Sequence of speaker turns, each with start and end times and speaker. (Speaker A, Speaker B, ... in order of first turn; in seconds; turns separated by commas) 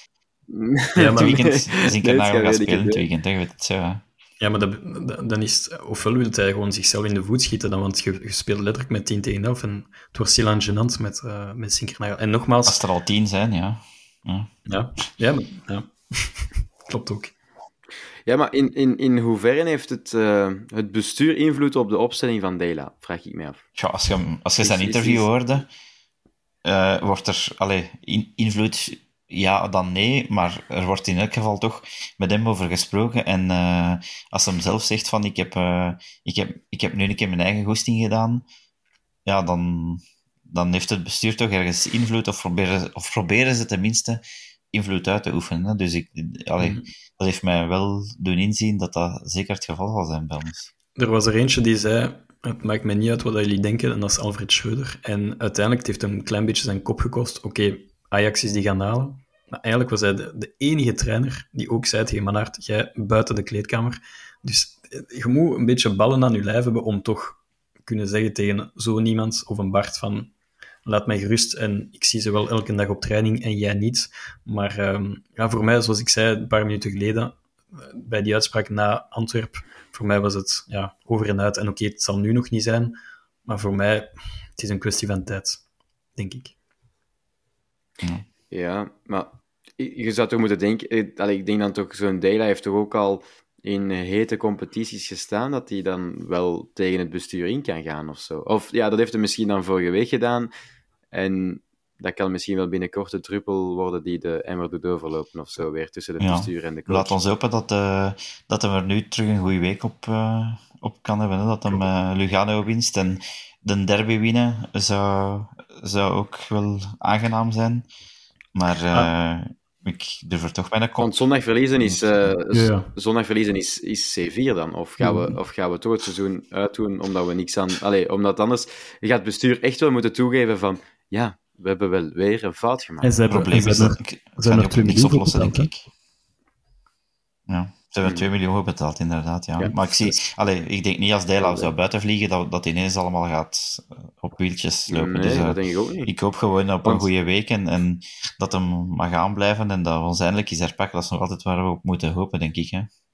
Speaker A: 0.5-3.0, Speaker B: 0.9-1.5, Speaker C: 1.2-4.0, Speaker B: 4.4-12.8, Speaker C: 12.7-14.5, Speaker B: 14.7-17.3, Speaker A: 18.2-23.6, Speaker C: 23.8-25.7, Speaker A: 24.6-25.6, Speaker C: 26.6-38.4, Speaker C: 39.2-50.7, Speaker B: 46.6-46.9, Speaker B: 51.0-70.3, Speaker B: 70.8-85.6, Speaker B: 86.2-86.5, Speaker A: 88.5-100.5, Speaker A: 101.1-107.2, Speaker C: 106.2-117.9, Speaker C: 118.5-121.2, Speaker A: 121.0-133.2, Speaker C: 121.8-122.3, Speaker B: 122.5-122.9, Speaker B: 133.0-135.7, Speaker C: 133.3-135.9, Speaker C: 137.5-152.9, Speaker A: 141.4-141.7, Speaker A: 144.9-146.1